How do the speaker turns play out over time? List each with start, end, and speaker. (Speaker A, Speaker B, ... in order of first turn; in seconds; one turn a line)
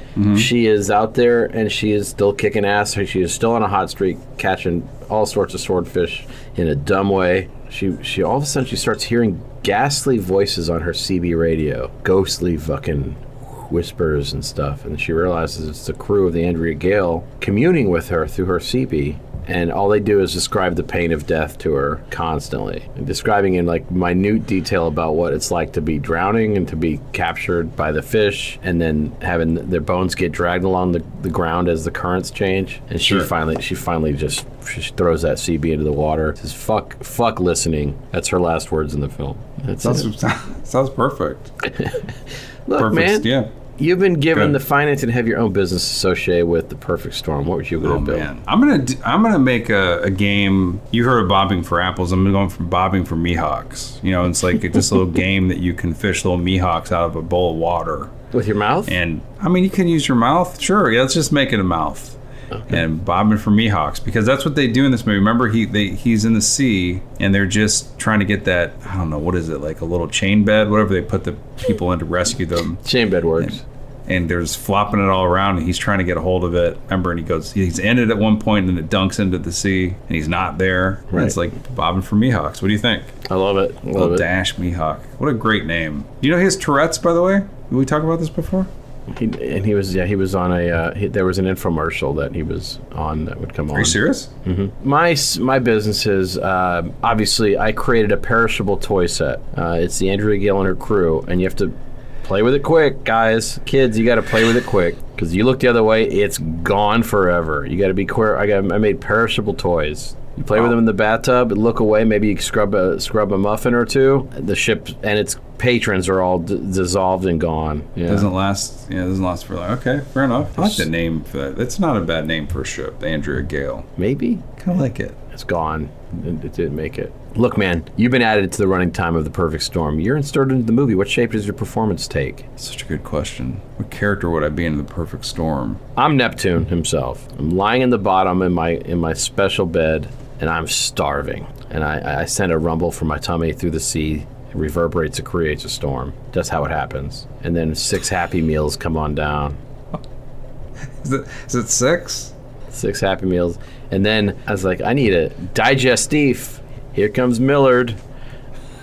Speaker A: 0.1-0.5
Speaker B: 0.3-40.1
Speaker A: 33.0-33.3
Speaker A: 39.8-41.5
Speaker B: 41.7-42.0
Speaker B: 42.7-48.3
Speaker A: 42.8-43.5
Speaker A: 47.8-58.1
Speaker B: 58.3-58.9
Speaker A: 58.9-72.8
Speaker B: 72.8-73.6
Speaker A: 73.4-83.2
Speaker B: 81.1-81.3
Speaker B: 83.3-84.2
Speaker A: 83.9-88.7
Speaker B: 89.1-118.3
Speaker A: 93.7-94.3
Speaker A: 118.1-123.9
Speaker B: 120.6-120.9
Speaker B: 124.0-124.5
Speaker A: 124.6-125.2
Speaker B: 125.3-132.5
Speaker A: 132.6-135.8
Speaker B: 135.9-149.6
Speaker A: 150.8-152.3
Speaker B: 152.7-158.0